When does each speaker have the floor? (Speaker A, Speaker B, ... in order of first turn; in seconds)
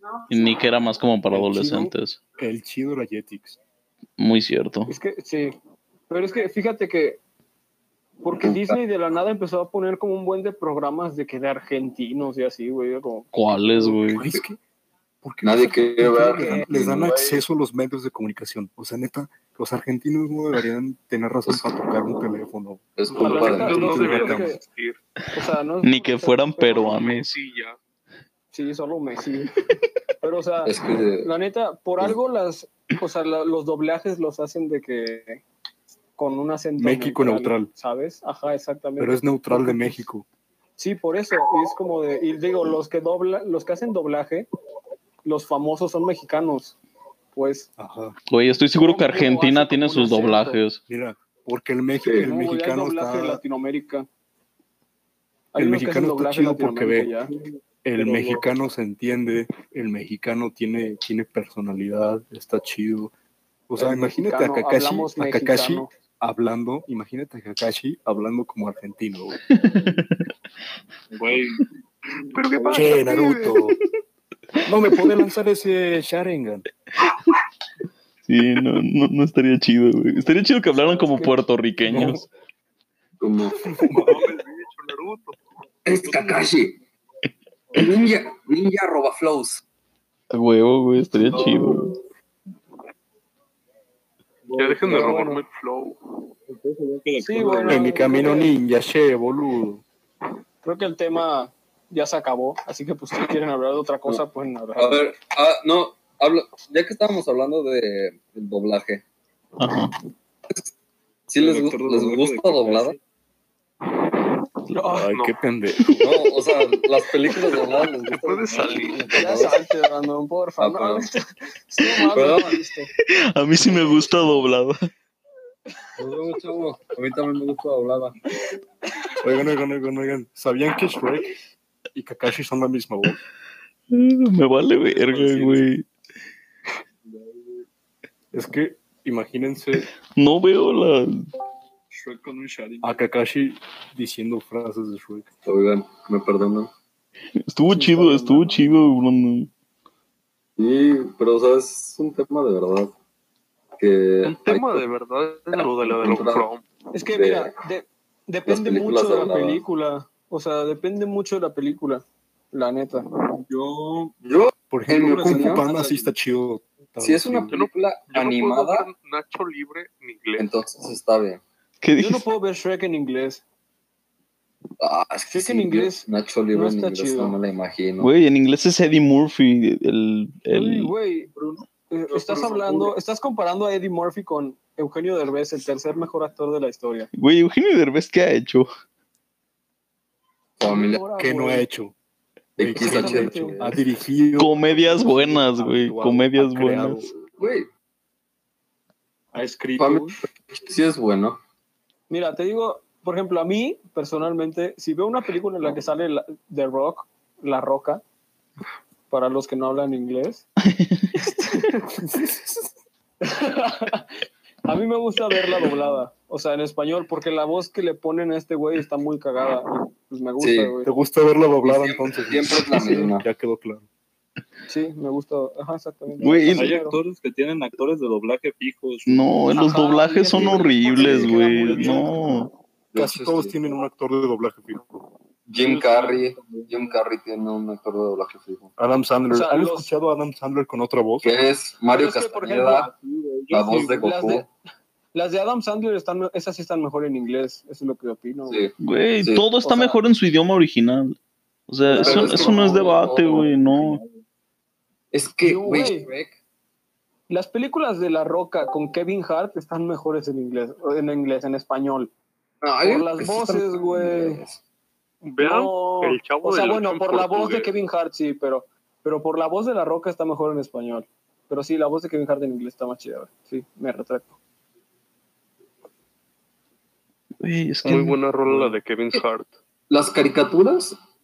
Speaker A: 0.3-2.2, 4.2-4.9, 13.3-14.3, 25.8-27.3, 48.3-50.8, 69.5-70.2, 78.3-82.3, 90.3-91.9, 109.6-109.9, 123.3-124.7, 133.9-135.8, 140.1-141.2, 147.5-149.5, 171.8-172.2, 178.0-180.9, 187.2-188.7, 194.4-197.0, 210.7-211.1, 226.2-226.8, 229.1-232.5, 248.8-251.2, 251.7-254.0, 277.4-278.2
Speaker B: 1.3-3.6, 14.1-14.6, 15.2-24.6, 36.8-37.7, 39.0-40.2, 47.8-48.1, 50.9-53.4, 55.5-57.1, 57.8-63.1, 63.7-69.4, 72.6-73.8, 74.7-76.7, 81.8-82.2, 83.7-84.2, 97.7-99.8, 114.9-115.9, 129.2-131.3, 131.9-133.2, 138.3-139.9, 142.8-145.3, 164.7-167.5, 191.2-191.9, 192.6-197.1, 212.0-212.6, 220.8-223.9, 232.9-235.1, 238.8-241.3
Speaker C: 4.9-5.5, 6.1-7.2, 8.2-14.0, 16.3-16.6, 23.2-24.6, 25.3-26.9, 28.5-29.5, 30.2-35.4, 36.2-40.0, 40.8-44.5, 45.2-46.8, 47.3-47.7, 48.8-50.6, 52.2-54.1, 55.5-57.3, 63.8-65.9, 94.8-95.4, 97.2-98.5, 100.6-105.0, 114.7-115.1, 119.1-122.9, 147.7-148.6, 156.9-163.1, 165.3-165.6, 172.0-173.4, 175.3-177.4, 180.5-181.3, 181.9-187.1, 190.6-191.6, 192.7-193.6, 202.1-208.0, 209.1-210.4, 211.2-211.8, 213.2-214.1, 214.7-220.9, 224.7-227.0, 229.5-232.1, 239.3-239.9, 241.9-242.9, 244.0-244.5, 245.1-248.6, 249.6-250.0, 252.0-252.3, 255.4-256.1, 257.3-262.1, 262.8-264.4, 265.4-274.4
Speaker D: 8.4-8.8, 15.4-17.4, 23.0-24.1, 30.6-31.3, 83.2-83.6, 85.8-86.8, 87.7-89.6, 104.8-109.0, 111.3-113.0, 116.0-119.6, 120.6-121.1, 121.8-122.6, 126.0-128.3, 145.4-146.7, 150.6-152.9, 153.8-154.8, 155.5-156.5, 157.0-157.5, 158.5-159.6, 164.2-165.7, 167.0-168.9, 170.4-171.4, 174.8-178.1, 190.6-191.0, 192.6-193.8, 197.3-197.7, 199.8-201.4, 220.4-220.7, 221.6-223.2, 230.3-231.3, 232.9-233.5, 235.5-238.8, 241.2-242.9, 243.5-244.5, 248.5-249.4, 251.9-253.5, 255.1-256.4, 262.6-264.6, 279.9-281.0
Speaker E: 23.4-25.0, 26.8-27.8, 72.3-73.6, 83.8-85.3, 94.6-96.0, 115.1-115.4, 118.1-119.2, 154.2-156.6, 167.5-170.5, 182.2-182.9, 265.2-267.8, 277.8-279.5
Speaker F: 58.0-58.4, 71.1-71.6, 91.2-91.7, 94.4-95.3, 96.5-98.3, 111.3-113.0, 134.7-135.7, 137.0-137.6, 141.9-143.1, 163.5-164.1, 226.5-229.3, 235.6-236.9, 242.7-244.2, 252.0-254.2, 278.5-278.8